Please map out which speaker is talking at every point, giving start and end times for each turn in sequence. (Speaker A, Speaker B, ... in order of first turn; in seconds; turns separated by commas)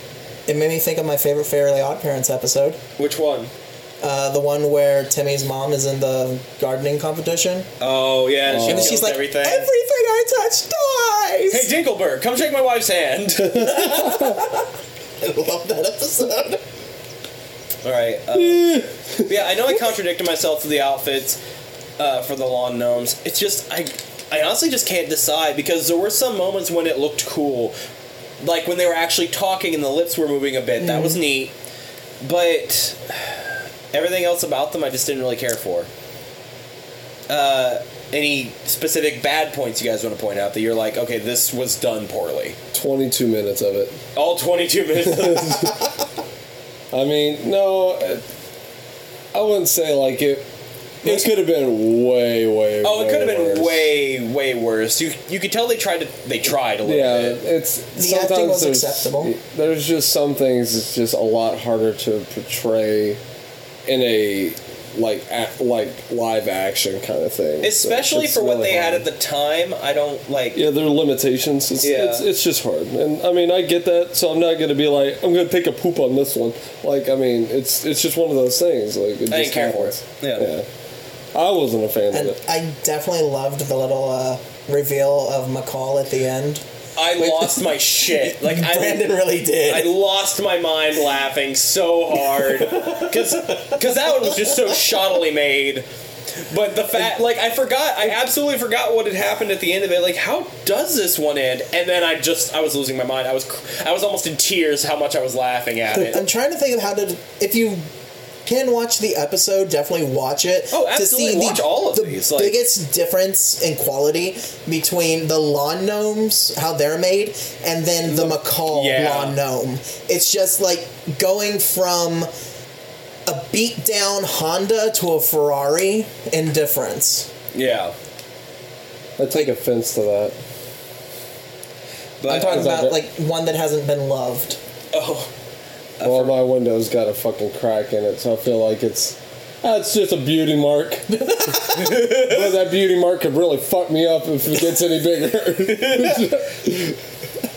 Speaker A: 0.5-2.8, Speaker B: 3.0-3.5, Speaker A: 4.0-7.7, Speaker B: 7.8-9.7, Speaker C: 8.5-9.0, Speaker A: 8.6-11.7, Speaker B: 11.5-14.2, Speaker A: 13.6-16.6, Speaker C: 13.6-14.3, Speaker B: 17.8-21.4, Speaker C: 18.3-19.3, Speaker B: 22.0-27.7, Speaker B: 28.4-31.5, Speaker A: 30.8-31.2, Speaker B: 32.2-35.9, Speaker B: 37.3-42.6, Speaker C: 42.7-44.0, Speaker B: 44.1-45.7, Speaker C: 45.0-45.8, Speaker C: 46.9-48.2, Speaker C: 49.3-50.5, Speaker C: 51.0-53.9, Speaker B: 52.8-57.4, Speaker C: 56.8-63.2, Speaker A: 58.0-59.3, Speaker C: 63.9-69.1, Speaker B: 67.6-70.6, Speaker C: 70.5-80.7, Speaker B: 71.8-72.3, Speaker B: 79.3-80.5, Speaker C: 81.3-82.4, Speaker A: 82.1-86.6, Speaker B: 87.0-89.1, Speaker A: 87.2-89.9, Speaker B: 89.7-95.8, Speaker A: 92.5-94.3, Speaker B: 96.4-106.2, Speaker A: 105.9-107.8, Speaker A: 108.5-122.3, Speaker B: 110.7-112.6, Speaker B: 118.1-119.4, Speaker A: 123.3-127.3, Speaker B: 127.5-127.9, Speaker C: 129.2-130.3, Speaker B: 132.2-132.7, Speaker A: 132.3-134.6, Speaker C: 132.3-133.0, Speaker B: 134.9-135.3, Speaker B: 136.0-136.4, Speaker C: 136.0-141.3, Speaker A: 141.2-142.0, Speaker B: 141.7-142.6, Speaker C: 141.9-147.0, Speaker B: 145.7-146.4